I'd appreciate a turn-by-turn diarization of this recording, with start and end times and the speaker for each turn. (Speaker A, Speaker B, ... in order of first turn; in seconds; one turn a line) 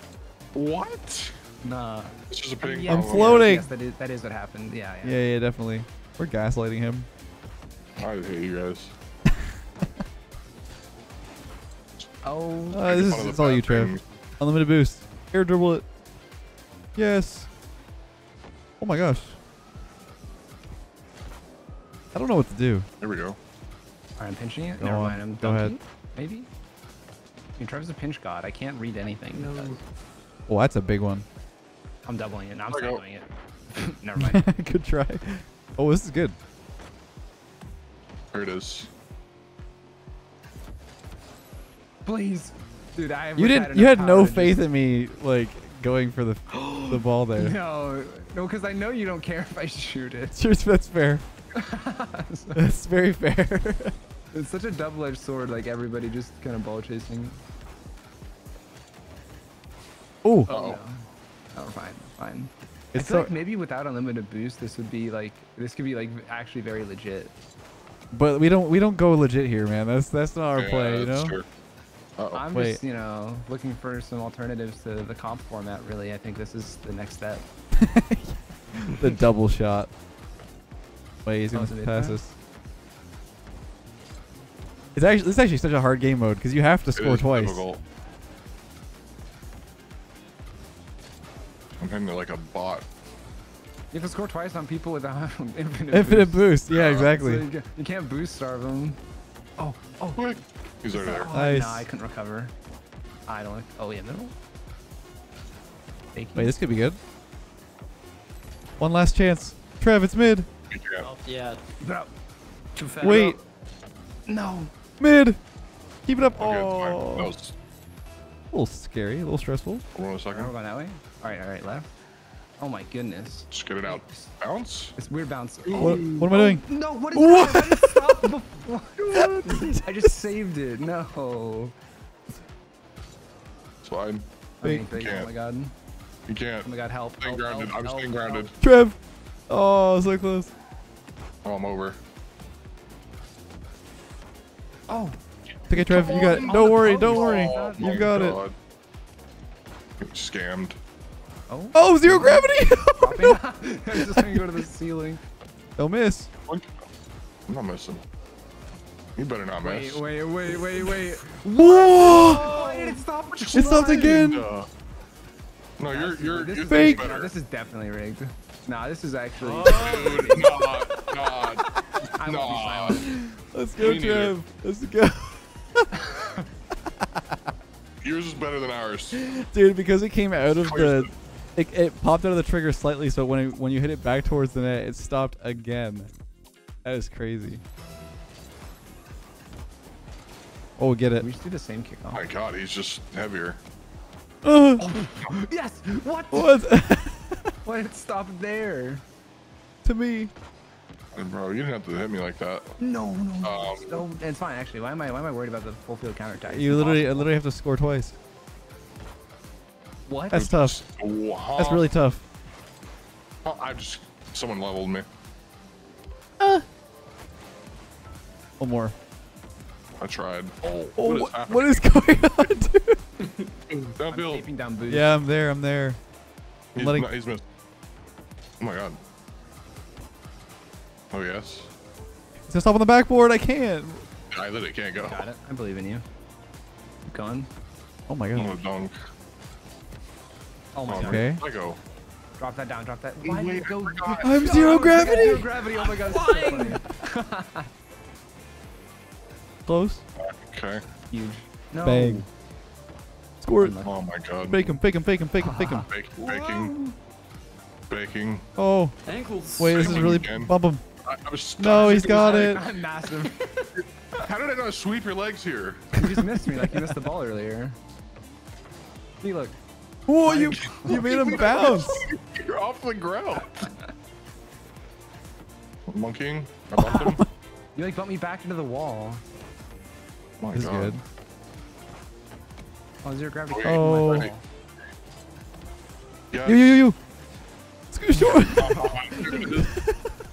Speaker A: 0.5-1.3
Speaker B: 1.6-5.2
Speaker A: 2.3-3.4
Speaker C: 2.9-3.7
Speaker C: 5.0-7.1
Speaker A: 8.0-8.9
Speaker B: 12.2-12.9
Speaker C: 12.7-15.8
Speaker A: 12.8-14.0
Speaker C: 17.0-17.5
Speaker C: 18.8-19.4
Speaker C: 22.1-22.9
Speaker A: 23.0-23.4
Speaker B: 24.2-26.5
Speaker C: 24.8-25.8
Speaker B: 27.6-29.8
Speaker D: 29.3-29.8
Speaker C: 30.5-31.2
Speaker B: 32.0-34.4
Speaker A: 32.7-33.0
Speaker C: 34.2-36.4
Speaker A: 38.3-38.9
Speaker B: 42.0-44.7
Speaker C: 43.4-47.6
Speaker B: 46.5-50.4
Speaker C: 50.3-51.2
Speaker B: 51.5-52.6
Speaker C: 52.5-53.9
Speaker B: 54.3-57.4
Speaker C: 60.2-60.5
Speaker B: 60.5-67.3
Speaker A: 60.5-60.8
Speaker C: 62.9-63.3
Speaker C: 68.1-71.4
Speaker A: 70.5-71.5
Speaker A: 72.2-72.4
Speaker B: 72.3-77.5
Speaker C: 72.5-72.8
Speaker C: 77.8-79.9
Speaker C: 81.2-82.3
Speaker B: 81.5-82.2
Speaker C: 85.0-87.6
Speaker A: 87.0-87.8
Speaker A: 91.8-92.9
Speaker B: 93.9-99.0
Speaker C: 95.9-97.5
Speaker A: 96.7-97.1
Speaker B: 99.6-100.3
Speaker A: 100.2-101.3
Speaker B: 100.9-102.5
Speaker C: 101.3-101.9
Speaker B: 103.3-104.3
Speaker B: 106.1-106.5
Speaker C: 106.3-107.0
Speaker C: 108.8-110.5
Speaker A: 110.7-111.1
Speaker D: 111.0-111.6
Speaker B: 111.8-112.1
Speaker D: 112.8-113.4
Speaker C: 113.0-113.4
Speaker B: 114.3-114.7
Speaker C: 115.0-115.4
Speaker C: 116.1-117.3
Speaker A: 116.4-117.5
Speaker C: 118.5-119.8
Speaker A: 120.0-120.5
Speaker B: 120.3-121.9
Speaker B: 122.6-124.3
Speaker A: 123.5-125.0
Speaker B: 125.0-131.7
Speaker A: 125.6-126.3
Speaker C: 125.8-128.3
Speaker C: 129.1-130.1
Speaker A: 133.8-134.3
Speaker B: 134.6-135.7
Speaker A: 134.9-135.3
Speaker A: 136.3-138.5
Speaker B: 136.6-138.5
Speaker C: 138.6-139.0
Speaker C: 139.5-140.5
Speaker A: 141.4-142.0
Speaker B: 144.9-145.2
Speaker C: 145.7-148.4
Speaker A: 145.7-148.6
Speaker B: 145.8-148.0
Speaker A: 150.0-150.8
Speaker B: 151.5-155.2
Speaker C: 151.7-153.4
Speaker C: 153.9-154.5
Speaker C: 155.8-156.3
Speaker A: 156.5-156.8
Speaker A: 157.5-158.0
Speaker A: 159.2-161.1
Speaker B: 159.6-164.2
Speaker C: 161.6-162.5
Speaker D: 162.2-163.0
Speaker A: 163.3-164.7
Speaker C: 163.5-164.5
Speaker A: 165.8-167.3
Speaker B: 165.9-170.5
Speaker C: 166.6-167.1
Speaker D: 169.4-170.8
Speaker A: 169.7-173.1
Speaker B: 172.2-173.1
Speaker C: 173.1-175.9
Speaker A: 173.8-174.3
Speaker B: 176.0-176.5
Speaker A: 178.0-179.2
Speaker C: 179.2-186.1
Speaker A: 180.6-181.1
Speaker C: 186.8-187.6
Speaker C: 190.8-191.3
Speaker B: 191.2-192.2
Speaker A: 192.1-193.6
Speaker C: 194.4-194.9
Speaker B: 194.8-196.6
Speaker C: 196.3-197.5
Speaker B: 197.6-199.0
Speaker C: 199.8-200.3
Speaker A: 201.1-202.8
Speaker B: 202.8-207.3
Speaker A: 203.4-204.1
Speaker C: 206.5-208.2
Speaker B: 210.1-210.5
Speaker C: 210.3-210.8
Speaker A: 210.3-211.9
Speaker C: 211.6-212.2
Speaker A: 213.4-215.1
Speaker C: 216.4-216.7
Speaker C: 218.6-218.9
Speaker A: 220.0-221.9
Speaker C: 221.0-223.0
Speaker A: 223.7-224.5
Speaker B: 224.1-225.2
Speaker C: 224.9-226.0
Speaker A: 226.7-227.4
Speaker C: 226.8-227.1
Speaker A: 228.6-229.0
Speaker A: 231.1-231.7
Speaker C: 232.5-234.1
Speaker A: 234.3-235.3
Speaker B: 235.0-236.0
Speaker B: 237.1-237.5
Speaker C: 238.1-238.6
Speaker A: 238.3-239.0
Speaker B: 240.7-241.2
Speaker A: 240.9-241.8
Speaker C: 241.0-241.4
Speaker B: 242.4-247.7
Speaker A: 243.2-244.9
Speaker C: 244.2-245.5
Speaker D: 245.0-246.8
Speaker C: 249.7-250.0
Speaker A: 250.2-250.8
Speaker B: 251.1-252.3
Speaker C: 251.8-252.3
Speaker C: 253.4-253.8
Speaker B: 253.6-253.9
Speaker A: 253.8-254.8
Speaker C: 254.5-255.9
Speaker B: 255.4-257.0
Speaker A: 255.9-256.7
Speaker A: 257.9-258.5
Speaker C: 258.6-258.9
Speaker D: 259.1-260.2
Speaker C: 259.6-260.8
Speaker A: 259.6-260.5
Speaker A: 261.0-262.6
Speaker C: 261.6-262.6
Speaker B: 261.7-263.4
Speaker A: 264.2-265.9
Speaker B: 265.9-267.8
Speaker C: 266.0-267.1
Speaker B: 269.2-269.6
Speaker C: 270.1-272.1
Speaker B: 270.3-271.9
Speaker A: 270.5-273.7
Speaker A: 275.9-277.2
Speaker C: 276.8-277.2
Speaker B: 276.8-277.1
Speaker B: 277.8-279.2
Speaker A: 280.4-281.0
Speaker C: 280.5-281.0
Speaker B: 283.0-284.4
Speaker A: 283.5-284.3
Speaker C: 283.6-284.3
Speaker A: 286.3-286.9
Speaker C: 286.4-287.0
Speaker C: 287.9-290.1
Speaker B: 288.1-289.5
Speaker A: 288.5-289.7